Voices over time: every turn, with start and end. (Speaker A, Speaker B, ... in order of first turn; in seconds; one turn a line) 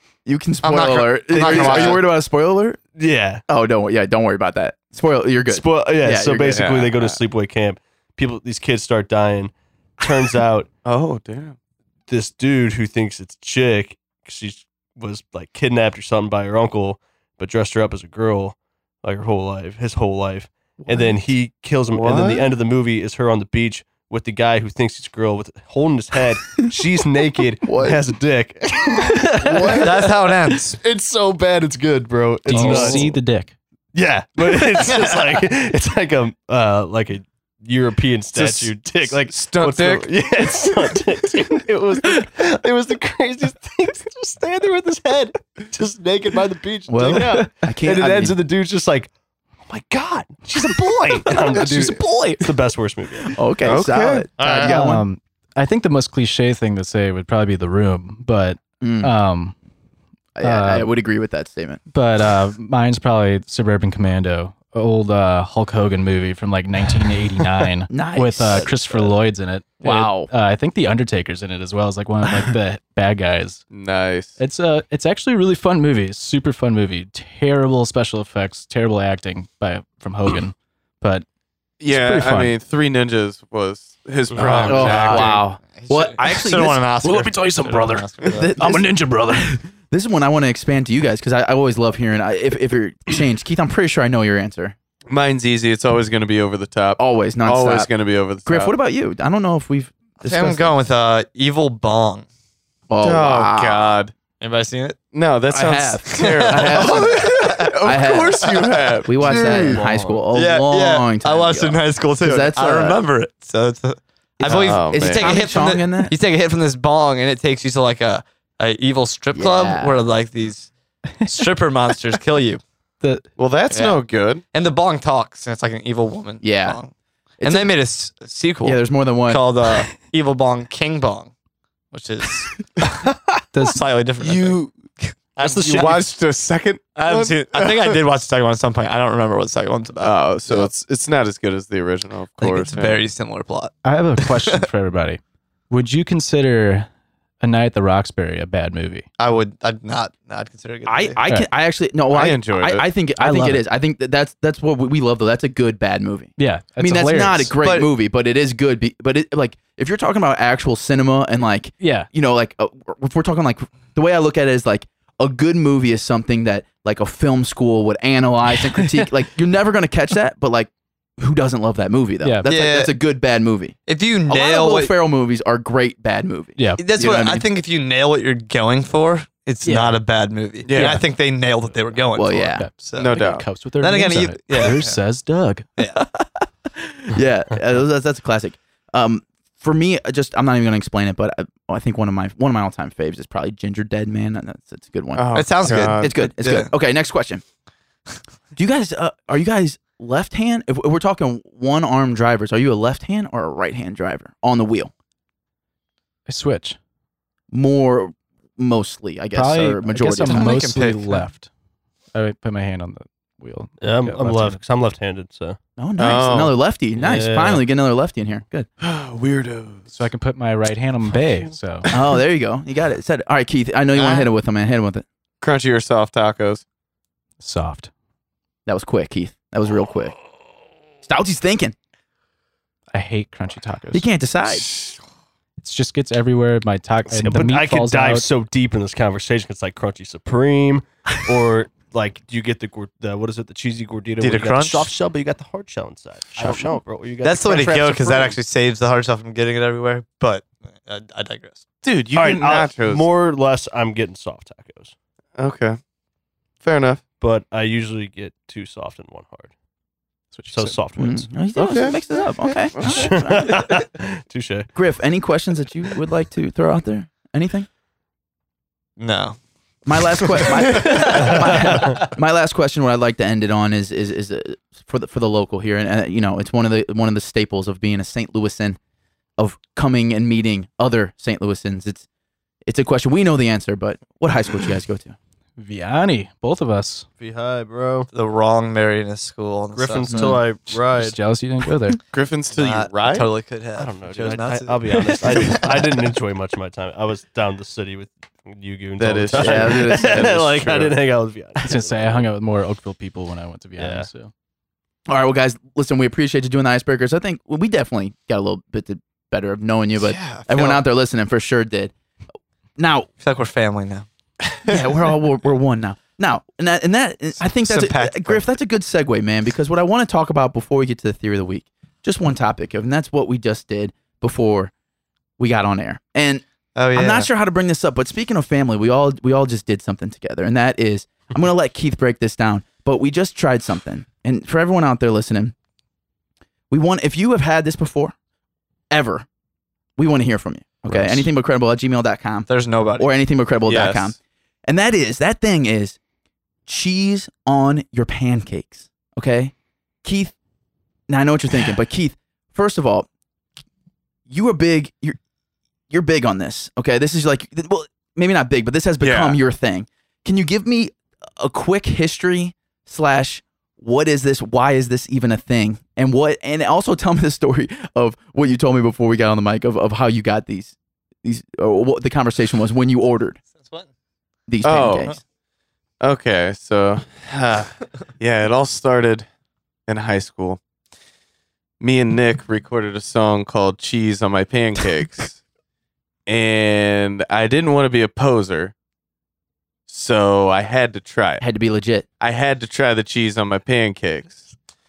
Speaker A: 0.3-2.8
Speaker B: 0.6-2.0
Speaker C: 1.3-2.0
Speaker C: 3.0-3.4
Speaker A: 3.5-6.8
Speaker C: 5.5-10.7
Speaker D: 6.5-7.1
Speaker D: 10.8-11.6
Speaker C: 12.1-33.1
Speaker D: 20.9-21.2
Speaker D: 21.9-22.5
Speaker D: 27.7-28.0
Speaker D: 29.4-30.1
Speaker B: 29.8-30.8
Speaker E: 32.5-33.5
Speaker D: 32.6-32.9
Speaker C: 33.9-49.1
Speaker B: 34.9-35.3
Speaker D: 38.3-40.1
Speaker A: 46.9-48.4
Speaker C: 49.6-53.4
Speaker A: 53.3-55.0
Speaker D: 53.6-54.3
Speaker B: 54.4-54.7
Speaker E: 54.4-59.5
Speaker A: 58.8-59.1
Speaker A: 60.4-61.8
Speaker E: 60.4-60.9
Speaker E: 61.9-73.6
Speaker A: 67.9-69.1
Speaker A: 69.8-70.3
Speaker D: 73.7-74.4
Speaker E: 74.4-81.2
Speaker D: 81.8-85.5
Speaker E: 81.9-82.5
Speaker B: 84.3-88.5
Speaker E: 84.4-85.1
Speaker A: 84.7-86.8
Speaker E: 87.0-89.6
Speaker A: 88.2-94.8
Speaker D: 95.1-98.7
Speaker A: 97.0-97.9
Speaker A: 98.5-100.7
Speaker B: 100.2-102.3
Speaker A: 102.9-104.0
Speaker D: 103.0-104.1
Speaker B: 104.4-105.0
Speaker D: 105.1-109.8
Speaker A: 105.5-113.0
Speaker B: 106.1-107.8
Speaker C: 109.2-110.2
Speaker B: 110.3-120.7
Speaker A: 114.4-116.2
Speaker D: 114.5-115.5
Speaker A: 119.3-120.0
Speaker B: 121.2-122.6
Speaker D: 123.4-124.4
Speaker B: 123.7-124.0
Speaker B: 124.5-126.9
Speaker A: 126.4-126.8
Speaker A: 127.4-127.7
Speaker B: 127.4-131.3
Speaker A: 128.6-129.4
Speaker B: 131.9-132.6
Speaker E: 133.5-133.8
Speaker B: 133.6-136.1
Speaker D: 134.2-134.7
Speaker C: 135.4-136.0
Speaker D: 135.7-138.0
Speaker B: 137.0-140.7
Speaker D: 140.0-143.0
Speaker B: 142.4-144.7
Speaker E: 143.8-146.9
Speaker E: 147.4-149.1
Speaker B: 149.2-151.2
Speaker A: 150.9-173.8
Speaker D: 152.1-152.9
Speaker E: 153.2-153.6
Speaker E: 156.4-157.5
Speaker B: 157.6-157.9
Speaker E: 161.8-162.1
Speaker E: 172.2-172.5
Speaker B: 172.5-172.9
Speaker B: 173.9-174.9
Speaker A: 174.3-177.4
Speaker E: 176.6-176.8
Speaker B: 176.8-185.0
Speaker E: 179.7-180.0
Speaker D: 180.7-181.1
Speaker A: 182.2-182.7
Speaker E: 182.5-185.7
Speaker D: 183.0-183.5
Speaker B: 185.8-186.0
Speaker A: 186.0-197.4
Speaker D: 195.2-196.1
Speaker B: 195.3-196.7
Speaker A: 198.6-204.9
Speaker E: 206.3-206.8
Speaker A: 207.5-210.7
Speaker E: 209.3-211.5
Speaker B: 210.2-211.2
Speaker E: 212.1-214.6
Speaker C: 213.8-215.6
Speaker A: 215.8-218.7
Speaker D: 216.0-216.5
Speaker C: 217.0-217.6
Speaker D: 218.8-219.9
Speaker E: 219.9-221.9
Speaker A: 221.9-225.1
Speaker B: 224.0-224.3
Speaker D: 225.4-226.6
Speaker E: 227.4-227.9
Speaker A: 228.7-230.2
Speaker A: 231.1-231.8
Speaker E: 232.9-234.1
Speaker A: 233.9-234.7
Speaker E: 235.6-238.3
Speaker C: 237.1-248.4
Speaker B: 244.2-244.9
Speaker B: 247.2-251.6
Speaker D: 251.8-253.1
Speaker C: 252.1-254.9
Speaker D: 255.4-255.8
Speaker D: 256.6-257.0
Speaker C: 257.2-259.5
Speaker E: 260.3-261.2
Speaker C: 260.5-261.3
Speaker A: 261.0-263.7
Speaker D: 261.6-263.1
Speaker C: 262.8-264.7
Speaker A: 264.8-267.7
Speaker B: 269.0-269.4
Speaker A: 269.9-278.8
Speaker B: 270.4-271.3
Speaker C: 271.3-272.0
Speaker A: 279.4-282.1
Speaker A: 282.7-285.2
Speaker E: 285.6-287.1
Speaker C: 287.2-288.1
Speaker B: 288.1-290.4
Speaker C: 289.7-291.2
Speaker E: 290.1-292.0
Speaker D: 292.1-293.3
Speaker B: 292.5-296.0
Speaker C: 293.8-302.2
Speaker D: 299.0-300.9
Speaker A: 299.3-300.6
Speaker E: 301.6-304.3
Speaker C: 303.8-304.1
Speaker A: 305.1-311.9
Speaker B: 310.0-310.9
Speaker A: 312.8-313.1
Speaker B: 313.2-314.1
Speaker A: 314.7-324.7
Speaker B: 317.5-318.4
Speaker A: 325.4-335.6
Speaker B: 326.8-327.3
Speaker A: 336.7-338.1
Speaker A: 338.9-339.3
Speaker A: 340.0-346.0
Speaker B: 342.5-343.1
Speaker D: 343.7-344.1
Speaker A: 346.7-349.5
Speaker A: 350.0-350.3
Speaker A: 351.1-353.1
Speaker A: 354.3-355.2
Speaker A: 355.9-373.4
Speaker D: 359.0-359.4
Speaker B: 373.6-373.9
Speaker A: 374.5-375.2
Speaker D: 374.6-375.2
Speaker D: 376.0-379.3
Speaker D: 379.9-380.6
Speaker D: 381.8-385.4
Speaker D: 386.3-388.7
Speaker D: 389.9-391.4
Speaker A: 391.4-392.1
Speaker D: 392.2-394.5